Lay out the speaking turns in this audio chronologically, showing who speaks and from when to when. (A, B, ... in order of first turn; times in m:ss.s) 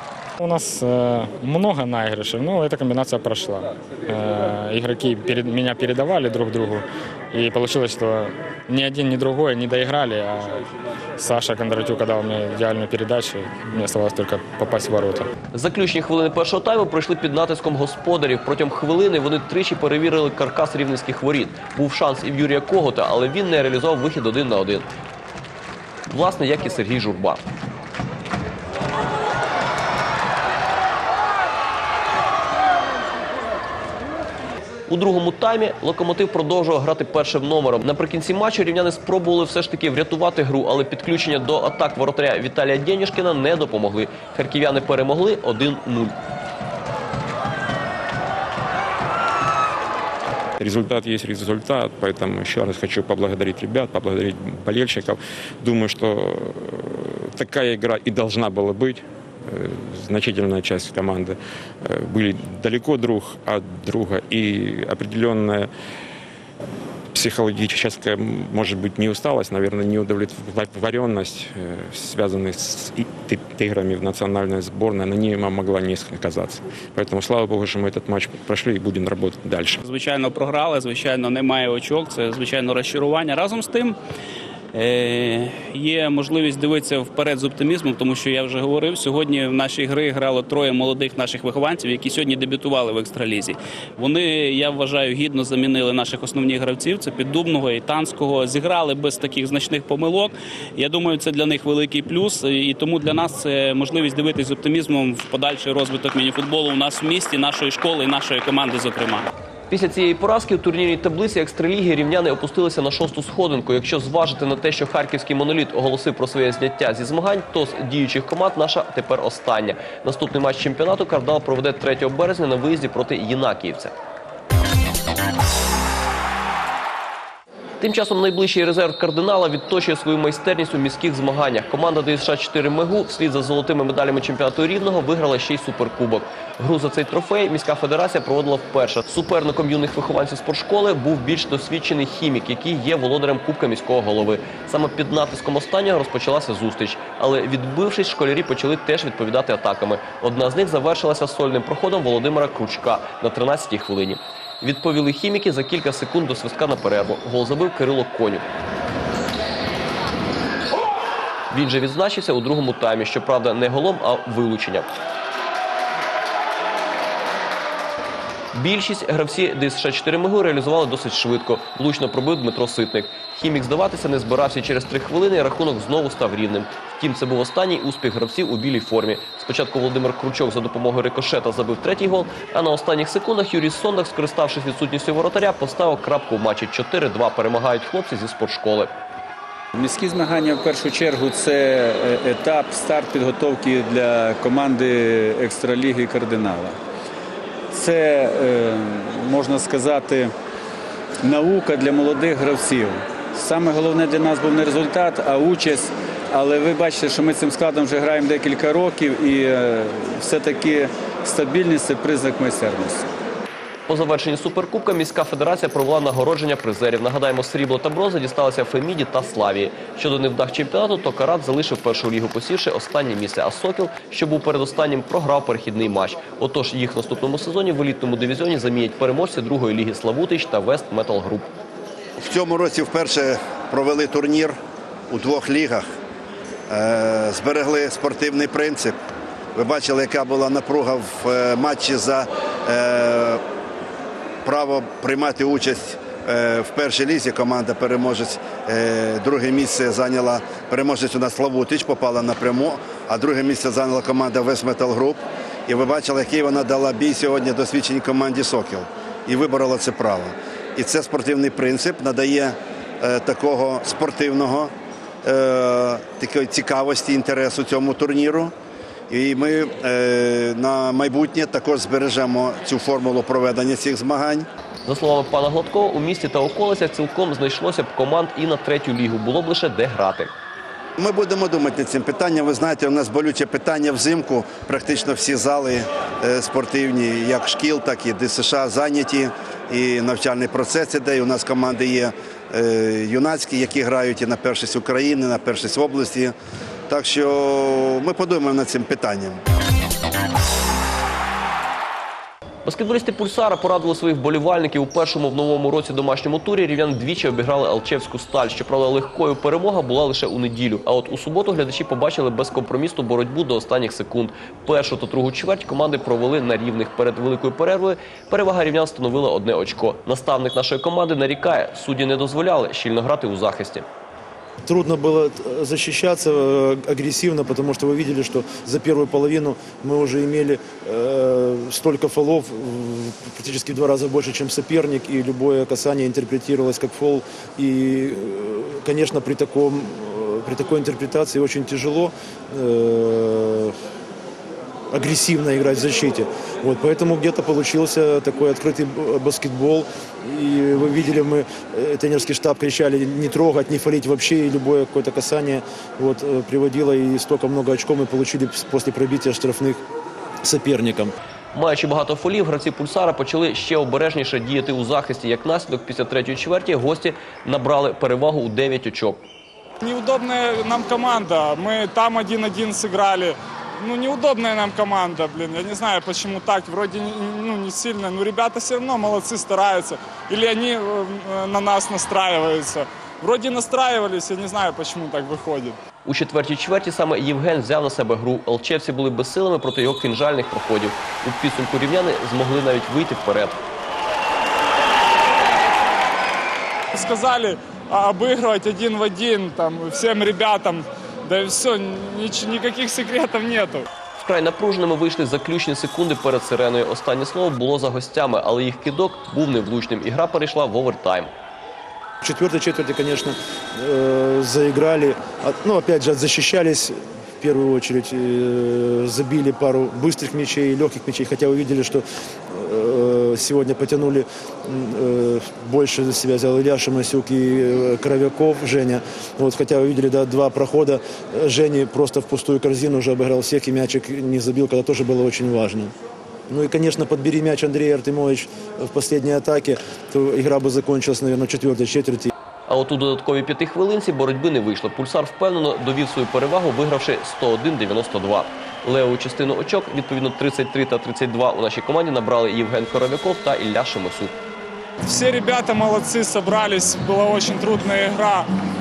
0:00.4-0:10.6 A
0:11.2-0:15.3 A
0:15.5-0:24.9 B
0:26.1-0:27.4 B
0:34.9-0:46.2 B
0:50.6-1:05.7 C
1:07.1-1:19.8 C
1:19.8-1:24.0 D
1:24.7-1:49.3 D
1:49.7-2:03.9 B
2:07.8-2:38.4 B
2:41.5-2:44.9 B
2:48.5-3:08.9 B
3:09.7-3:16.8 E
3:17.7-3:20.3 E
3:21.2-3:33.0 E
3:33.9-3:51.5 B
3:52.2-3:54.6 F
3:55.1-3:55.8 F
3:56.7-3:59.0 F
3:59.6-4:03.4 F
4:04.4-4:24.7 F
4:25.2-4:28.5 F
4:29.1-4:34.4 F
4:34.8-4:40.3 B
4:41.0-4:56.3 F
4:56.9-4:59.4 F
5:02.6-5:23.8 B
5:24.6-5:43.7 G
5:44.9-5:59.8 G
6:00.4-6:01.1 G
6:01.5-6:09.2 B
6:09.8-6:25.8 H
6:26.0-6:33.6 B
6:36.9-6:43.8 H
6:44.2-6:51.3 B
6:52.2-7:15.9 G
7:16.5-7:22.3 G
7:22.7-7:34.3 B
7:35.0-7:38.4 H